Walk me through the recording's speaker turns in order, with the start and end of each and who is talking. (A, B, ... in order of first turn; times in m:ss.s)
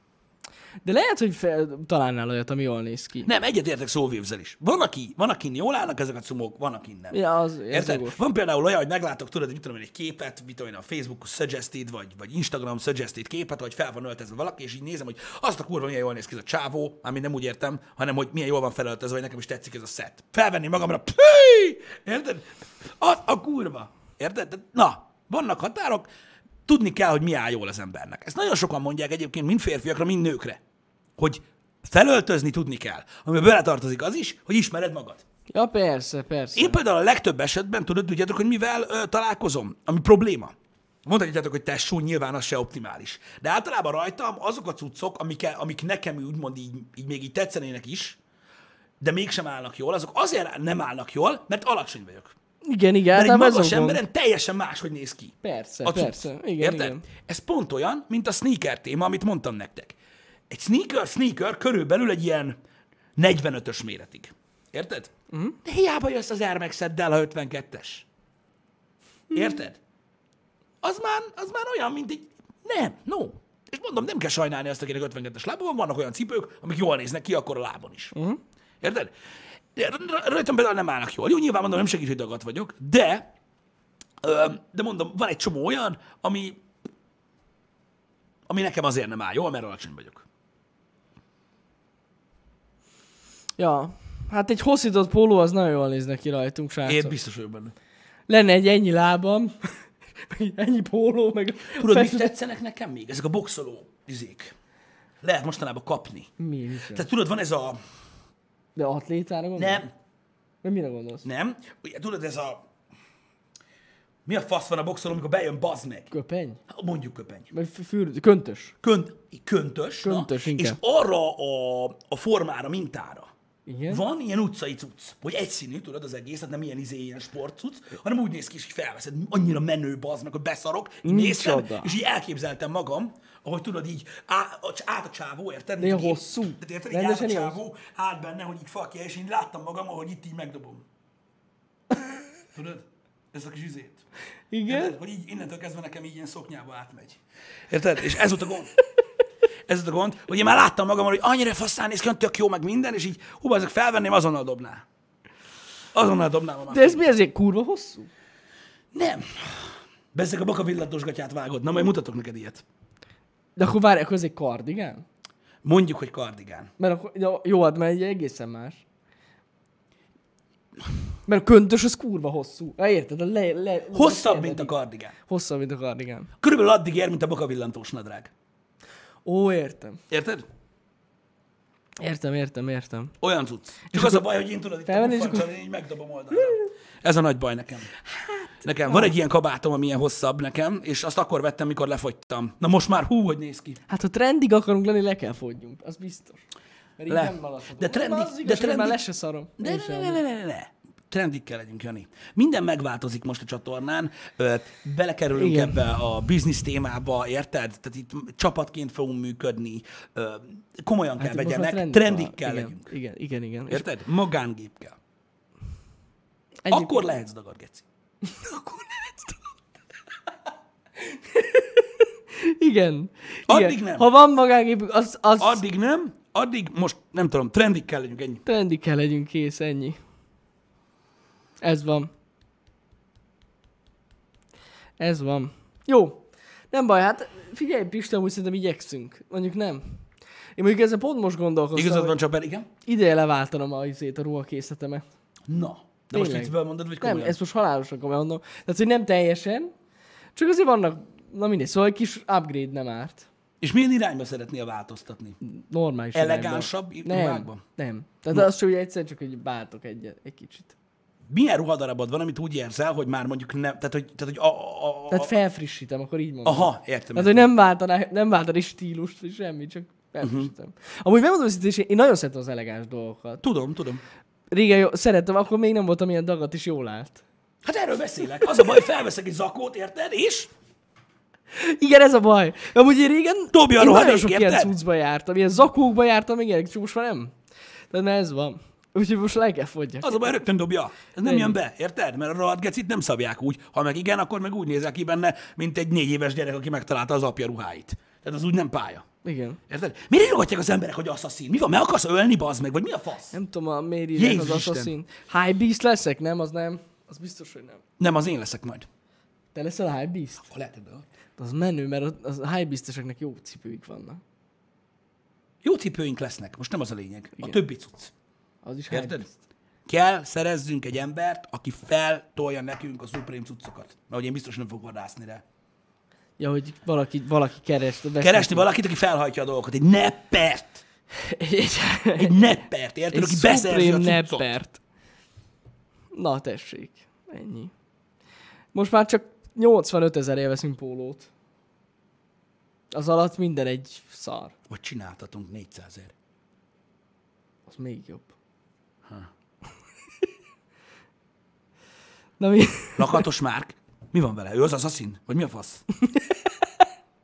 0:00.8-0:03.3 A
0:03.2-0:07.2 B
0:07.1-0:08.2 A
0:07.7-0:26.1 B
0:26.7-0:30.6 B
0:31.2-0:35.2 B
0:35.5-0:36.8 A
0:36.6-0:40.5 B
0:41.0-0:48.2 B
0:49.0-0:52.3 B
0:52.6-0:54.0 A
0:53.1-1:00.0 B
0:55.4-0:57.0 A
1:00.5-1:02.6 B
1:03.2-1:05.1 B
1:05.3-1:05.6 A
1:05.6-1:08.1 B
1:09.3-1:09.8 B
1:10.8-1:18.2 B
1:18.2-1:18.4 A
1:18.8-1:19.1 B
1:19.7-1:23.3 B
1:24.2-1:26.6 B
1:28.5-1:30.2 B
1:33.6-1:37.2 A
1:36.8-1:37.8 B
1:38.3-1:42.3 A
1:41.7-1:44.6 B
1:45.2-1:46.3 B
1:46.4-1:47.1 A
1:46.9-1:47.8 B
1:48.8-1:49.8 A
1:49.6-1:49.9 B
1:50.6-1:51.3 A
1:51.2-1:52.7 B
1:54.3-1:56.1 B
1:56.1-1:56.6 A
1:56.7-1:57.5 B
1:57.5-1:58.8 A
1:58.8-2:03.3 B
2:00.0-2:00.8 A
2:03.7-2:04.0 A
2:03.9-2:20.8 B
2:11.0-2:12.0 A
2:15.8-2:17.6 A
2:22.5-2:24.0 B
2:24.5-2:25.0 A
2:24.7-2:28.7 B
2:29.7-2:34.8 B
2:35.9-2:37.1 B
2:36.7-2:38.1 A
2:38.9-2:42.6 B
2:43.6-2:45.0 A
2:45.6-2:46.7 B
2:46.8-2:48.8 A
2:51.3-2:54.7 A
2:53.9-2:55.2 B
2:55.3-2:56.3 A
2:56.4-2:58.3 B
2:59.2-3:00.0 A
3:00.1-3:00.4 B
3:02.0-3:03.2 A
3:03.2-3:07.9 B
3:03.9-3:04.2 A
3:04.9-3:05.5 A
3:06.4-3:06.7 A
3:08.2-3:09.1 A
3:08.6-3:13.8 B
3:13.9-3:16.4 A
3:17.0-3:20.2 A
3:17.1-3:19.0 B
3:19.6-3:32.9 B
3:25.4-3:25.8 A
3:31.2-3:33.9 A
3:33.7-3:35.0 B
3:36.6-3:37.1 A
3:36.7-3:37.8 B
3:38.2-3:39.4 A
3:41.0-3:45.6 A
3:43.5-3:44.1 B
3:45.4-3:48.4 B
3:48.5-3:50.0 A
3:51.6-3:52.1 A
3:55.0-4:00.0 A
4:00.6-4:02.2 A
4:01.8-4:02.7 B
4:02.9-4:05.0 A
4:05.5-4:07.4 B
4:06.1-4:09.7 A
4:10.4-4:13.3 A
4:13.6-4:15.4 B
4:15.4-4:20.8 A
4:16.1-4:17.6 B
4:21.3-4:25.3 B
4:25.1-4:33.4 A
4:26.4-4:27.5 B
4:30.2-4:30.5 B
4:33.4-4:34.0 B
4:34.5-4:37.2 A
4:37.6-4:40.5 B
4:41.5-4:47.4 A
4:43.5-4:44.7 B
4:47.9-4:50.4 A
4:50.0-4:59.1 B
4:51.2-4:51.6 A
4:59.2-4:59.6 A
4:59.7-5:03.4 B
5:03.3-5:07.8 A
5:04.2-5:04.9 B
5:08.0-5:08.9 B
5:09.6-5:10.5 A
5:10.4-5:11.0 B
5:11.4-5:14.2 A
5:15.6-5:18.1 B
5:18.6-5:19.4 A
5:18.9-5:19.3 B
5:19.9-5:25.4 B
5:26.4-5:28.7 A
5:28.2-5:30.8 B
5:31.2-5:32.4 A
5:32.2-5:34.5 B
5:33.1-5:34.8 A
5:36.1-5:37.7 A
5:38.7-5:41.3 A
5:42.9-5:44.5 A
5:44.7-5:46.1 B
5:47.7-5:48.3 A
5:52.4-5:53.3 A
5:53.0-5:55.8 B
5:56.0-5:56.9 A